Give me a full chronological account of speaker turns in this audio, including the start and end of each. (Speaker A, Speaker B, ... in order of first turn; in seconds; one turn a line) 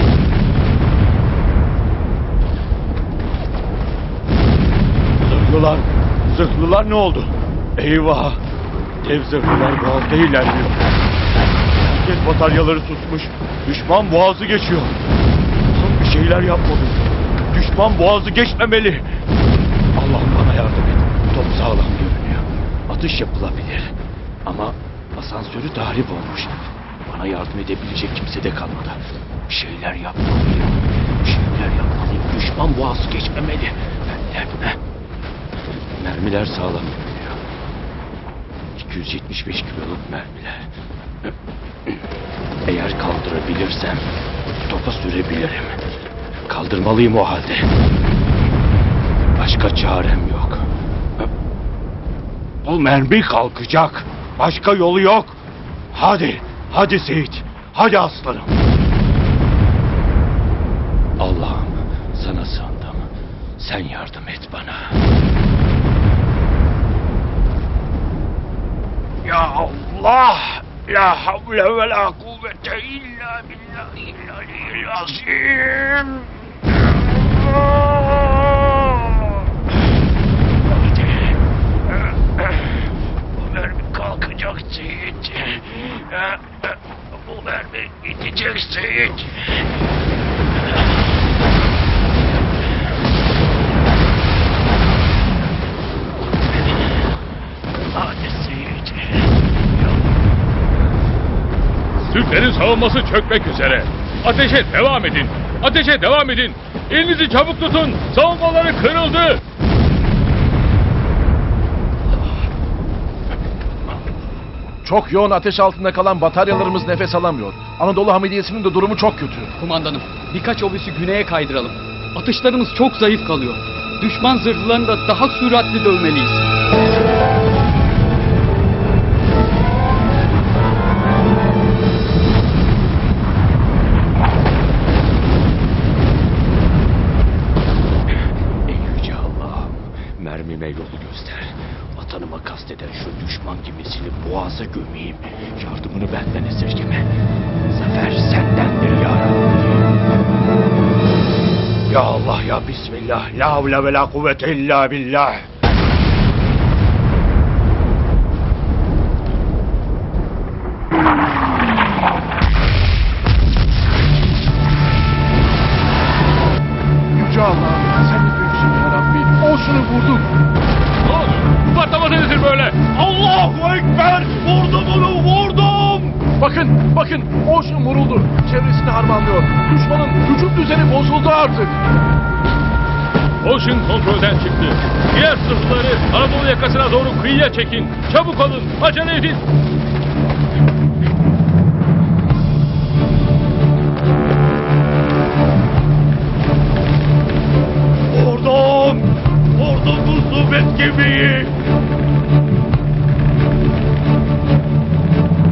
Speaker A: 5.2-8.4
Speaker A: 9.0-10.8
Speaker A: 11.8-14.9
Speaker A: 15.7-19.1
Speaker A: 19.9-23.9
Speaker A: 24.4-34.8
Speaker A: 36.0-37.4
Speaker A: 38.8-40.7
Speaker A: 42.6-44.0
Speaker A: 44.6-45.8
Speaker A: 46.5-47.7
Speaker A: 49.3-50.6
Speaker A: 52.6-55.4
Speaker A: 55.9-58.5
Speaker A: 61.2-63.1
Speaker A: 63.6-64.9
Speaker A: 69.2-76.4
Speaker A: 77.0-79.3
Speaker A: 80.8-81.3
Speaker A: 82.4-82.7
Speaker A: 83.3-86.4
Speaker A: 87.2-89.5
Speaker A: 97.9-99.3
Speaker B: 102.0-109.4
Speaker C: 114.8-119.5
Speaker D: 119.6-126.4
Speaker A: 138.6-147.1
Speaker A: 147.7-149.8
Speaker A: 151.9-155.5
Speaker C: 167.1-170.3
Speaker B: 171.0-172.8
Speaker A: 172.8-176.2
Speaker C: 176.4-181.8
Speaker B: 183.4-189.4
Speaker A: 198.1-201.6